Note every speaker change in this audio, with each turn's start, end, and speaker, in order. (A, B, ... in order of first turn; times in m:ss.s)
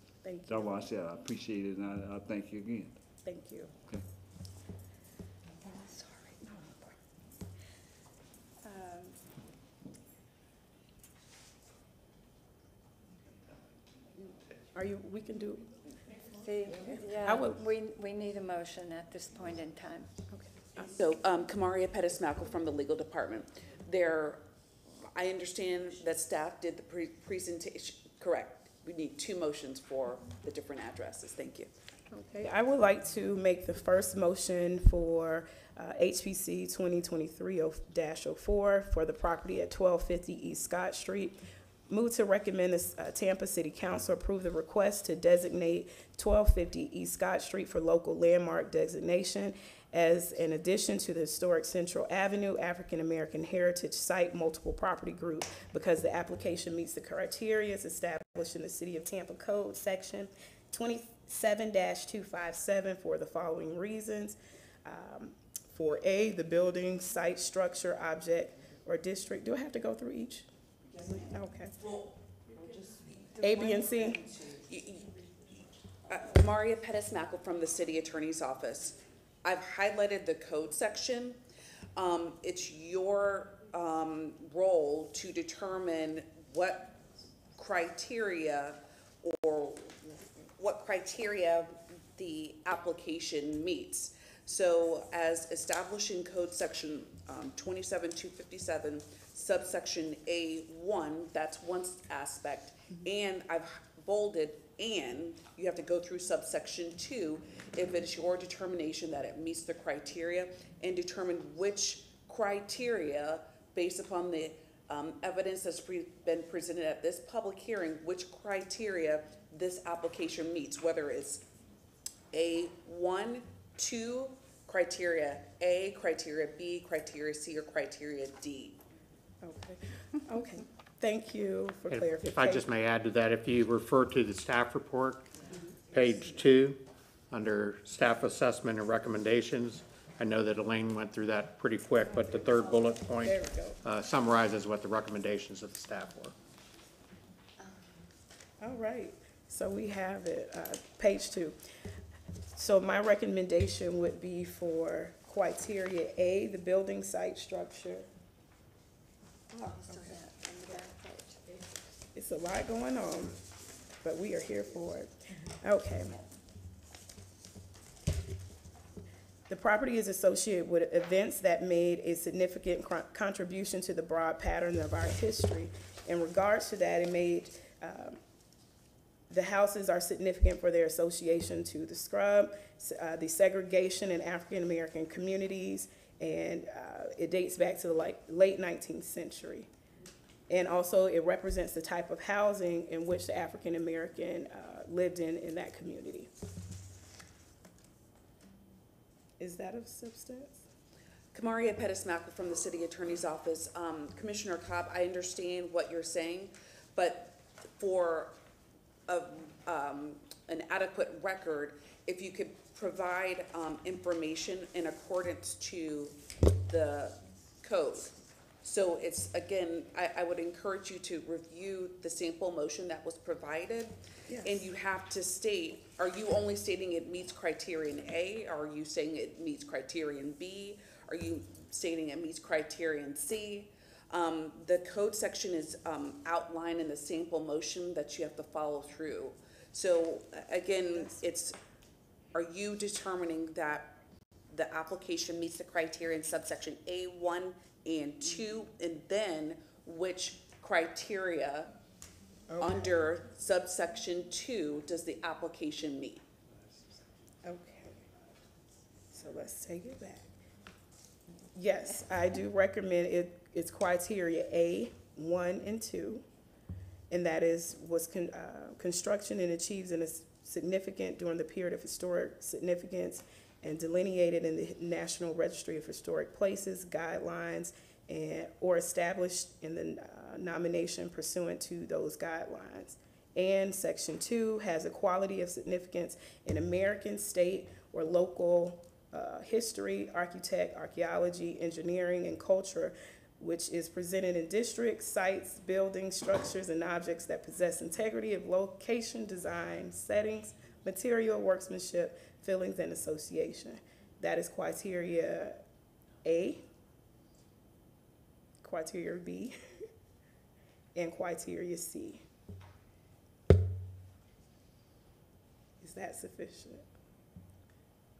0:00.2-0:00.8 A
0:00.5-0:03.0 B
0:03.2-0:03.7 A
0:05.6-0:06.9 C
0:08.6-0:09.2 C
0:14.7-0:15.7 A
0:16.3-0:20.1 C
0:16.8-0:17.6 A
0:20.3-0:20.9 A
0:20.8-0:24.4 D
0:25.1-0:31.7 D
0:32.2-1:10.5 A
1:11.2-1:11.8 A
1:11.8-1:15.1 D
1:13.4-1:14.2 A
1:16.1-1:21.4 D
1:22.0-1:27.0 D
1:27.6-2:01.5 D
2:02.3-2:08.8 D
2:09.4-2:12.6 A
2:11.9-2:15.3 E
2:15.9-2:26.4 E
2:22.2-2:23.8 A
2:28.6-2:31.6 A
2:32.6-2:38.1 A
2:39.6-2:41.4 C
2:39.6-2:40.0 A
2:42.2-2:43.4 A
2:44.0-2:46.2 A
2:49.5-2:58.2 A
2:59.3-3:09.7 A
3:10.5-3:16.3 A
3:19.4-3:20.6 A
3:21.3-3:28.4 D
3:29.1-4:01.6 D
4:02.3-4:11.8 D
4:12.6-4:16.2 D
4:17.4-4:18.0 A
4:19.1-4:20.3 A
4:21.5-4:26.2 A
4:27.1-5:05.6 A
5:06.2-5:06.6 A
5:08.6-5:09.6 A
5:11.0-5:12.2 A
5:15.8-5:16.9 A